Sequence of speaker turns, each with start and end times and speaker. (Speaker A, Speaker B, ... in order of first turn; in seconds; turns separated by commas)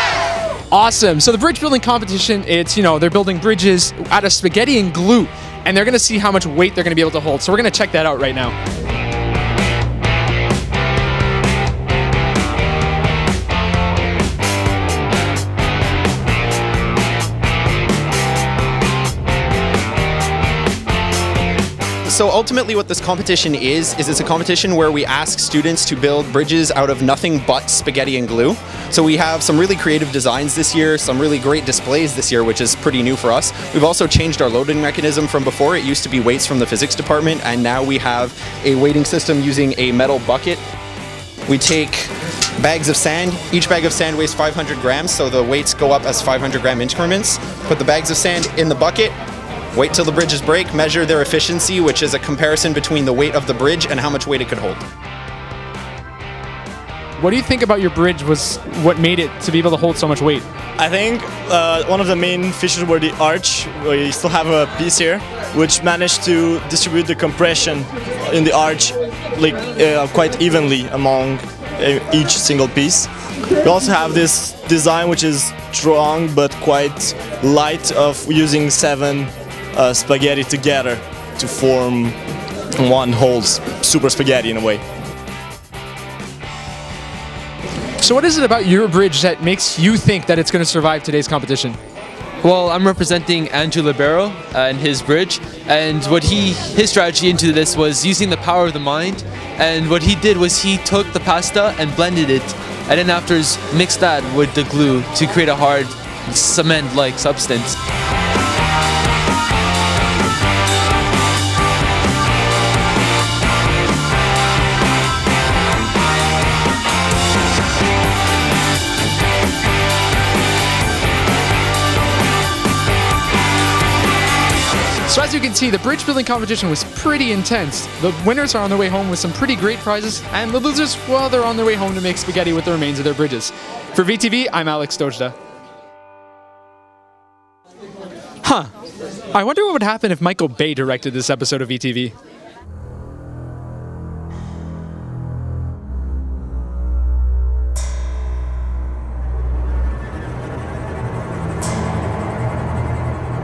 Speaker A: 0.7-8.6, Speaker B: 22.1-40.6, Speaker B: 41.5-49.1, Speaker B: 49.7-54.8, Speaker A: 57.2-60.5, Speaker C: 60.8-73.1, Speaker C: 73.6-82.2, Speaker C: 82.8-84.8, Speaker A: 88.0-91.8, Speaker D: 92.4-107.8, Speaker A: 125.1-135.3, Speaker A: 138.4-138.7, Speaker A: 139.3-142.1